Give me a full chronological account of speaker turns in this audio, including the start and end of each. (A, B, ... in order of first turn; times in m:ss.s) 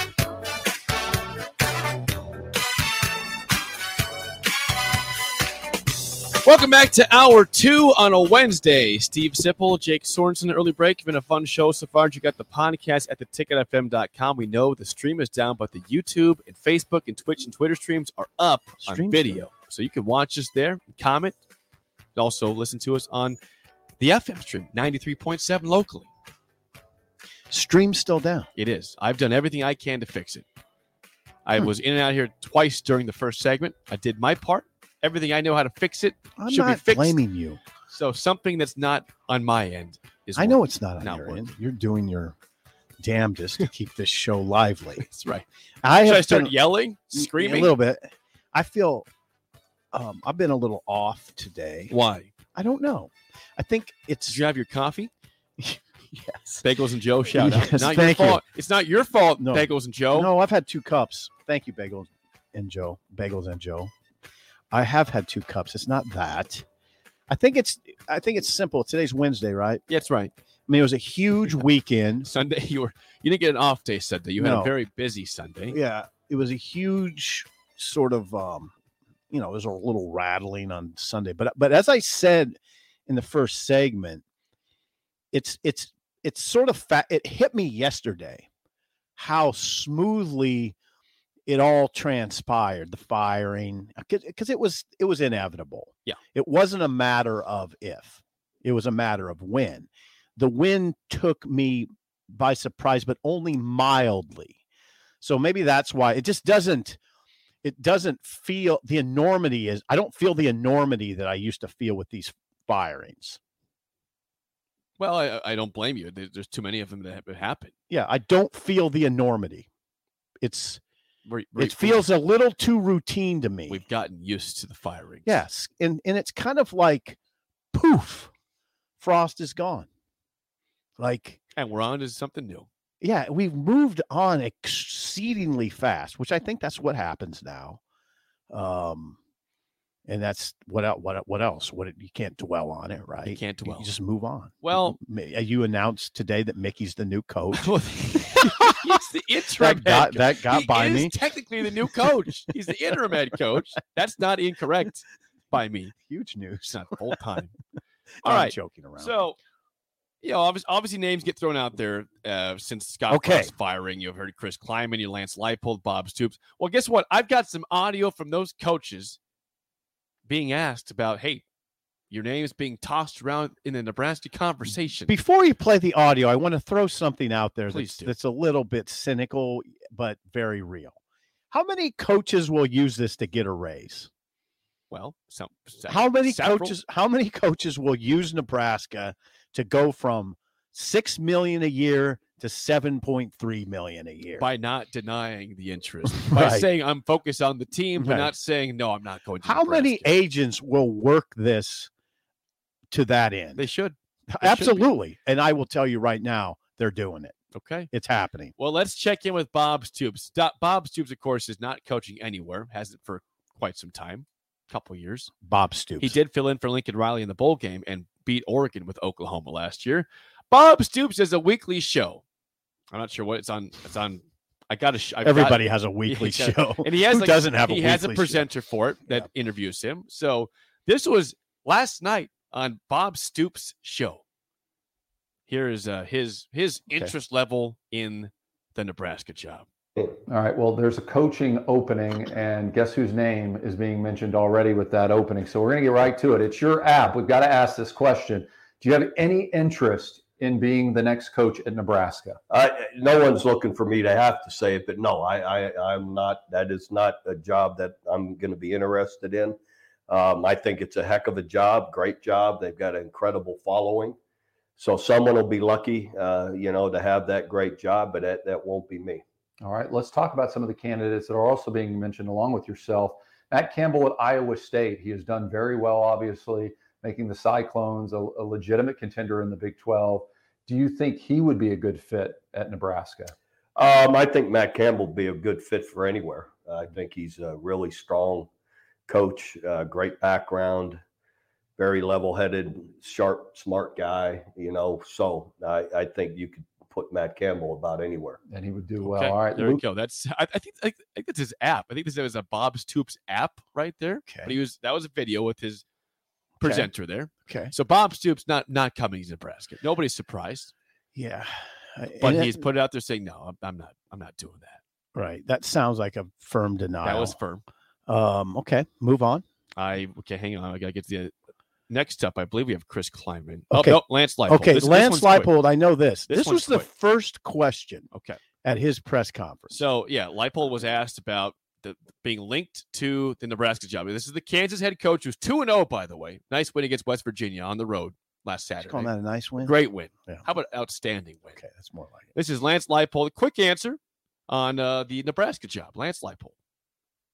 0:06.4-0:21.4 A
0:18.8-0:19.5 B
0:22.2-0:23.4 A
0:24.0-0:26.1 A
0:27.5-0:28.5 B
0:28.6-0:30.5 A
0:31.5-0:37.2 A
0:36.4-0:37.6 B
0:37.9-0:41.5 A
0:40.4-0:42.4 B
0:43.0-0:45.1 B
0:45.0-0:45.4 A
0:45.8-0:46.6 B
0:46.0-0:47.8 A
0:47.1-0:49.1 B
0:49.9-0:51.9 B
0:51.9-0:52.3 A
0:52.6-0:54.4 B
0:54.3-0:55.1 A
0:55.6-0:56.6 B
0:56.6-1:00.3 A
0:57.3-0:58.4 B
0:59.4-1:03.9 B
1:04.7-1:06.6 B
1:07.3-1:09.8 B
1:09.9-1:10.3 A
1:10.7-1:12.3 B
1:12.2-1:15.8 A
1:14.4-1:14.7 B
1:15.7-1:18.7 B
1:19.3-1:24.2 B
1:25.3-1:28.5 B
1:29.2-1:30.8 B
1:31.5-1:44.6 B
1:45.2-1:47.0 B
1:47.6-1:53.4 B
1:55.0-1:57.7 A
1:57.9-1:59.7 B
2:00.4-2:00.8 B
2:01.3-2:02.1 A
2:01.6-2:03.8 B
2:03.7-2:05.4 A
2:05.3-2:07.2 B
2:07.7-2:08.3 B
2:09.0-2:09.9 B
2:11.0-2:11.4 B
2:11.6-2:12.7 A
2:13.0-2:17.8 B
2:18.5-2:19.2 B
2:20.1-2:27.7 B
2:23.2-2:23.9 A
2:24.6-2:25.0 A
2:27.6-2:35.9 A
2:28.3-2:29.0 B
2:29.6-2:31.2 B
2:36.0-2:37.1 B
2:36.7-2:37.6 A
2:38.2-2:39.2 B
2:38.2-2:39.4 A
2:40.2-2:49.2 A
2:43.1-2:43.5 B
2:50.3-2:51.4 A
2:52.1-2:55.2 A
2:55.1-3:01.0 B
2:57.7-2:58.1 A
3:01.5-3:04.1 B
3:04.9-3:06.8 A
3:05.9-3:14.5 B
3:14.4-3:20.1 A
3:16.1-3:16.7 B
3:18.0-3:18.3 B
3:19.4-3:21.9 B
3:22.9-3:23.7 B
3:23.6-3:24.9 A
3:24.3-3:27.4 B
3:27.5-3:27.9 A
3:27.9-3:28.5 B
3:28.6-3:35.3 A
3:35.4-3:36.2 B
3:36.0-3:42.2 A
3:42.9-3:54.2 A
3:45.2-3:48.5 B
3:55.5-3:59.7 A
4:00.3-4:12.4 C
4:12.5-4:24.2 D
4:24.8-4:29.2 D
4:29.6-4:43.4 C
4:43.8-4:48.5 D
4:49.1-4:51.0 D
4:51.8-4:58.4 D
4:58.5-4:59.8 C
4:59.0-5:05.8 A
5:04.3-5:04.5 B
5:06.6-5:06.9 B
5:06.6-5:10.7 A
5:07.4-5:07.7 B
5:11.1-5:12.6 B
5:12.2-5:14.8 A
5:15.2-5:17.4 B
5:17.0-5:17.6 A
5:18.1-5:19.4 B
5:19.8-5:21.3 A
5:21.9-5:25.5 A
5:23.7-5:28.1 B
5:26.3-5:26.9 A
5:28.1-5:28.4 A
5:28.6-5:29.8 B
5:29.7-5:41.6 A
5:38.8-5:39.8 B
5:41.6-5:42.2 B
5:42.4-5:46.5 A